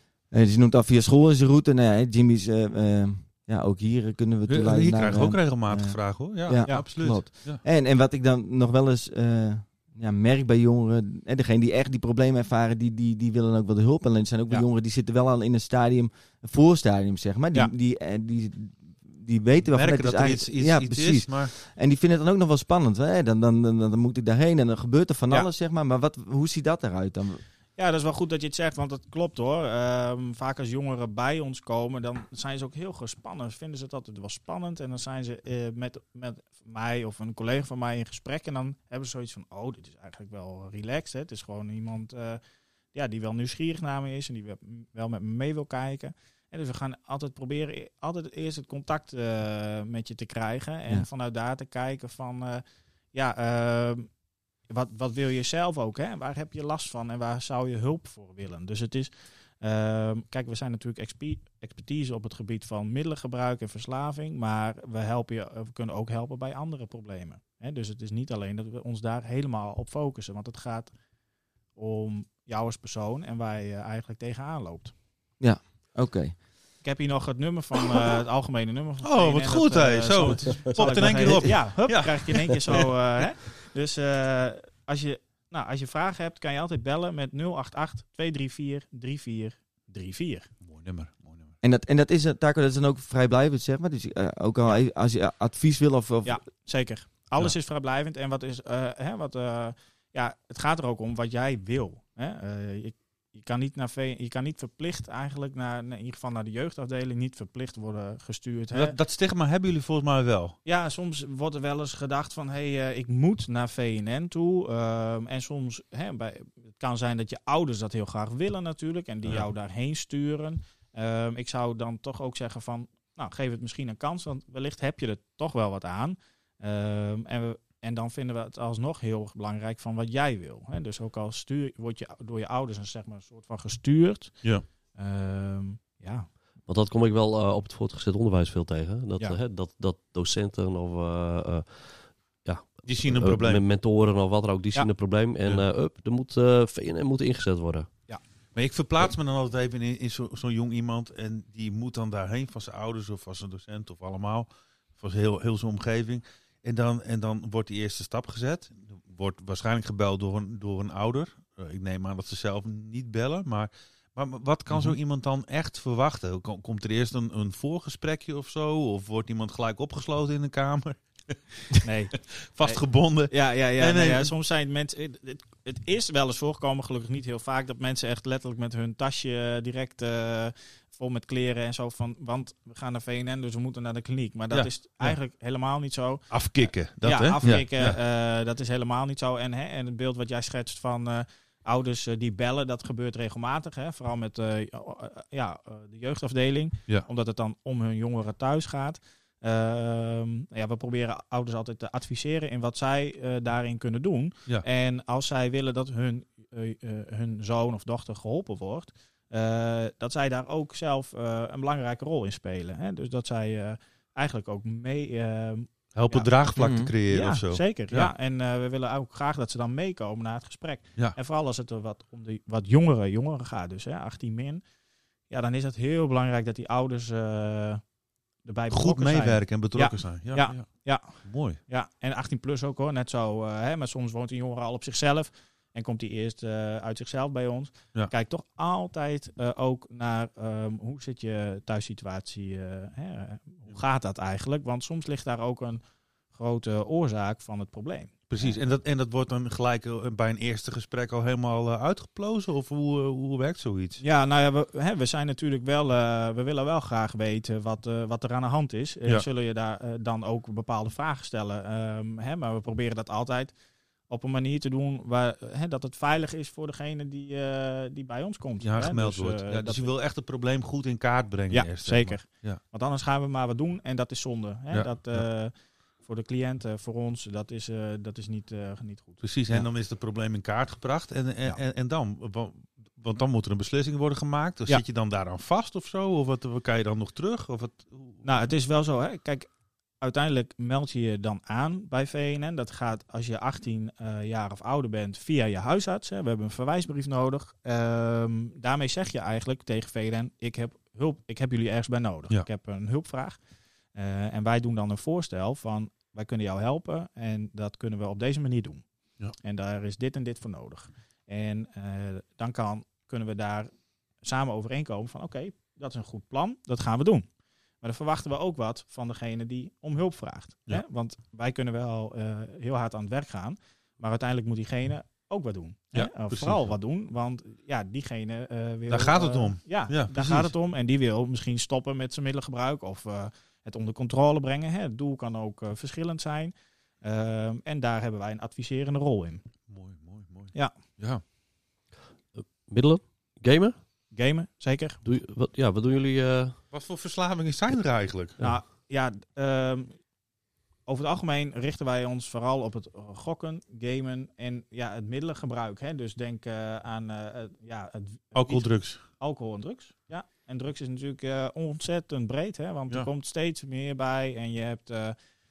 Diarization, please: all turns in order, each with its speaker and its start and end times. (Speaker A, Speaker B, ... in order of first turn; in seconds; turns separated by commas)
Speaker A: 0.3-27.4, Speaker B: 4.5-7.6, Speaker B: 19.7-21.5, Speaker C: 27.8-42.4, Speaker C: 42.9-54.1, Speaker C: 54.7-70.9, Speaker C: 71.8-74.9, Speaker A: 75.4-76.4, Speaker C: 76.8-90.5, Speaker B: 79.0-82.9, Speaker B: 90.6-91.5, Speaker A: 91.6-96.4, Speaker C: 96.2-109.0, Speaker B: 108.7-110.6, Speaker C: 110.7-136.3, Speaker D: 136.7-147.9, Speaker B: 142.8-143.6, Speaker B: 148.6-174.3, Speaker C: 171.8-186.5, Speaker B: 184.5-185.2, Speaker B: 186.3-188.0, Speaker C: 187.0-216.3, Speaker B: 215.9-218.1, Speaker A: 216.6-216.9, Speaker C: 217.1-224.6, Speaker C: 225.3-227.8, Speaker C: 228.4-245.8, Speaker B: 228.7-231.6, Speaker C: 246.3-248.6, Speaker B: 248.3-254.0, Speaker C: 254.0-263.5, Speaker C: 264.1-269.9, Speaker B: 268.6-272.6, Speaker C: 271.5-275.5, Speaker B: 274.7-275.2, Speaker C: 276.0-279.7, Speaker B: 279.2-288.2, Speaker C: 288.2-289.5, Speaker C: 290.0-303.4, Speaker C: 303.9-308.8, Speaker C: 309.4-313.7, Speaker C: 314.2-317.3, Speaker C: 317.8-339.4, Speaker B: 325.9-326.7, Speaker B: 328.9-330.5, Speaker B: 339.7-341.2, Speaker D: 342.4-343.8, Speaker C: 344.1-345.0, Speaker D: 345.1-346.6, Speaker B: 346.7-348.4, Speaker C: 348.4-349.9, Speaker C: 350.9-365.2, Speaker B: 358.4-359.0